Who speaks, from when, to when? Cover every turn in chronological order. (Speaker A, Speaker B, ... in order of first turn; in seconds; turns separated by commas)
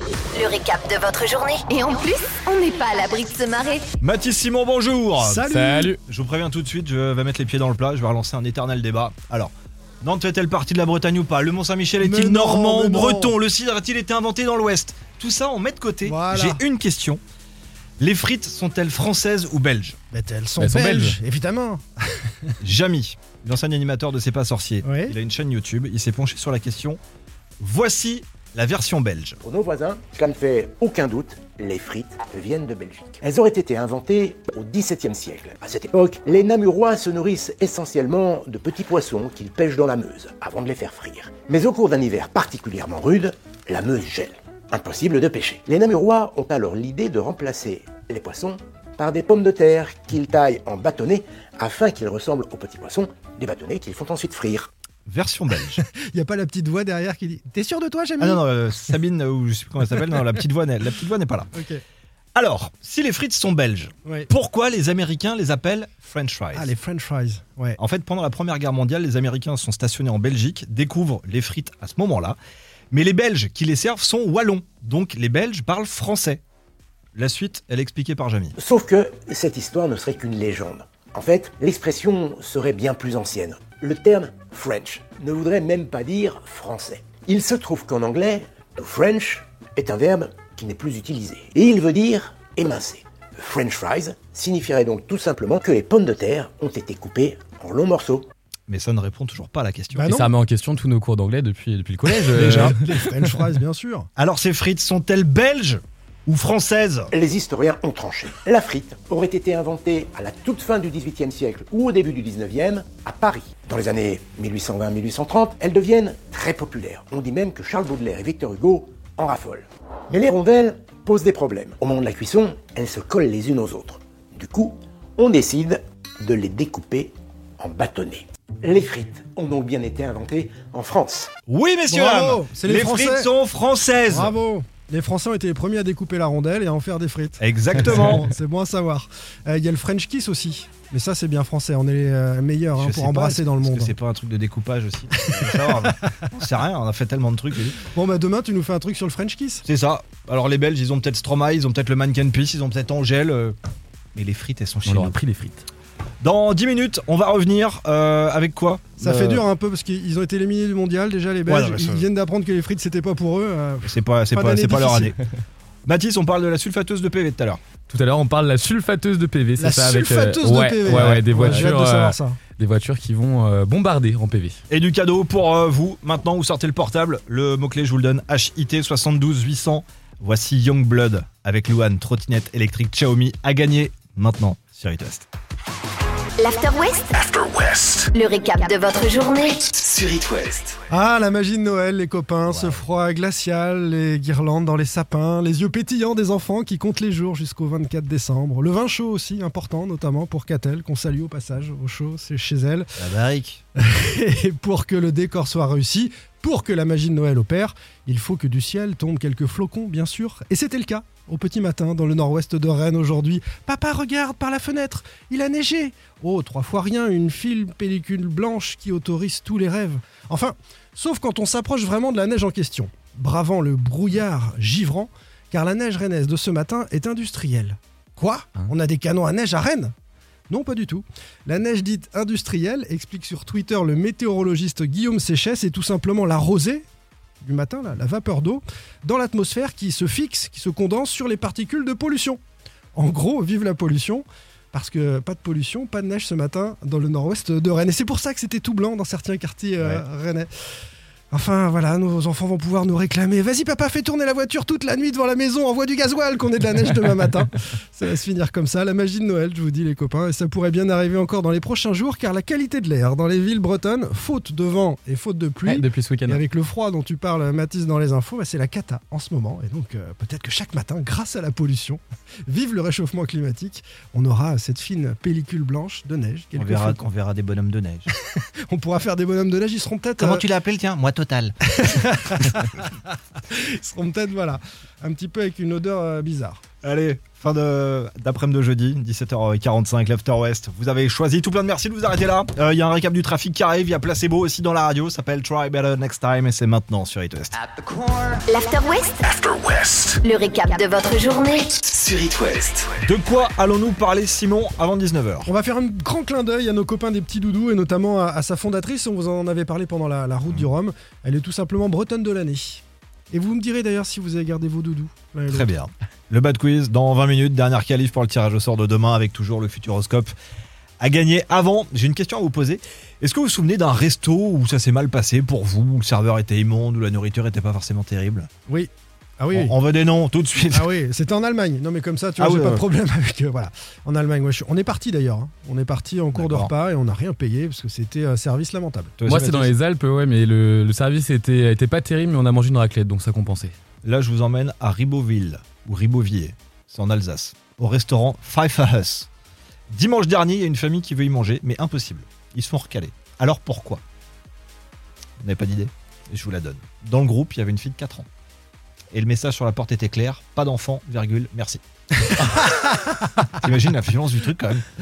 Speaker A: 0.3-3.8, Speaker B: 4.0-5.4, Speaker C: 5.2-5.9, Speaker D: 5.5-6.0, Speaker B: 6.1-17.2, Speaker C: 12.0-13.3, Speaker C: 16.0-16.6, Speaker B: 18.0-20.0, Speaker C: 20.1-22.5, Speaker D: 20.6-21.1, Speaker B: 22.6-27.0, Speaker C: 24.8-25.1, Speaker B: 27.6-29.4, Speaker E: 29.4-54.7, Speaker B: 55.1-55.8, Speaker C: 55.7-58.4, Speaker B: 58.2-61.5, Speaker C: 59.9-60.3, Speaker C: 61.5-61.8, Speaker B: 62.4-66.7, Speaker C: 66.5-67.8, Speaker B: 67.8-72.4, Speaker B: 72.9-76.4, Speaker B: 77.2-78.5, Speaker E: 78.6-98.3, Speaker B: 98.7-100.1, Speaker C: 99.9-100.3, Speaker D: 100.1-102.8, Speaker C: 102.0-104.1, Speaker B: 102.3-102.8, Speaker B: 104.2-107.1, Speaker E: 107.1-131.3, Speaker B: 131.5-134.3, Speaker C: 131.9-133.3, Speaker C: 134.1-143.9, Speaker B: 137.4-138.3, Speaker B: 142.8-147.8, Speaker C: 145.1-146.1, Speaker C: 147.8-149.6, Speaker B: 149.6-153.6, Speaker B: 154.1-155.2, Speaker D: 154.8-155.6, Speaker B: 156.2-158.9, Speaker C: 159.0-165.1, Speaker D: 159.0-159.4, Speaker B: 161.4-162.1, Speaker B: 163.8-165.2, Speaker B: 165.8-167.6, Speaker D: 167.9-174.6, Speaker C: 169.6-172.4, Speaker B: 174.7-185.3, Speaker A: 186.4-187.2, Speaker F: 187.4-187.8, Speaker A: 188.1-189.7, Speaker F: 189.7-190.8, Speaker C: 190.9-203.0, Speaker B: 192.5-192.8, Speaker B: 203.0-203.6, Speaker C: 203.8-229.9, Speaker C: 230.5-236.8, Speaker C: 237.4-242.4, Speaker C: 242.9-250.5, Speaker C: 251.3-277.0, Speaker D: 265.6-266.4, Speaker B: 276.6-278.1, Speaker C: 278.7-280.4, Speaker B: 280.2-281.5, Speaker C: 281.6-286.6, Speaker B: 286.8-297.5, Speaker A: 298.5-299.2, Speaker F: 299.5-299.9, Speaker A: 300.2-301.9, Speaker F: 301.9-302.9, Speaker B: 303.0-305.5, Speaker C: 305.4-315.7, Speaker B: 315.5-320.3, Speaker B: 321.0-328.5, Speaker C: 328.7-329.7, Speaker B: 329.5-330.9, Speaker C: 330.7-339.1, Speaker B: 332.4-332.8, Speaker B: 336.3-336.7, Speaker B: 339.2-339.7, Speaker D: 339.2-343.7, Speaker B: 344.0-349.3, Speaker B: 349.9-354.0, Speaker B: 355.4-358.2, Speaker B: 359.1-361.8, Speaker C: 362.3-363.1, Speaker B: 362.4-362.7, Speaker B: 363.5-364.8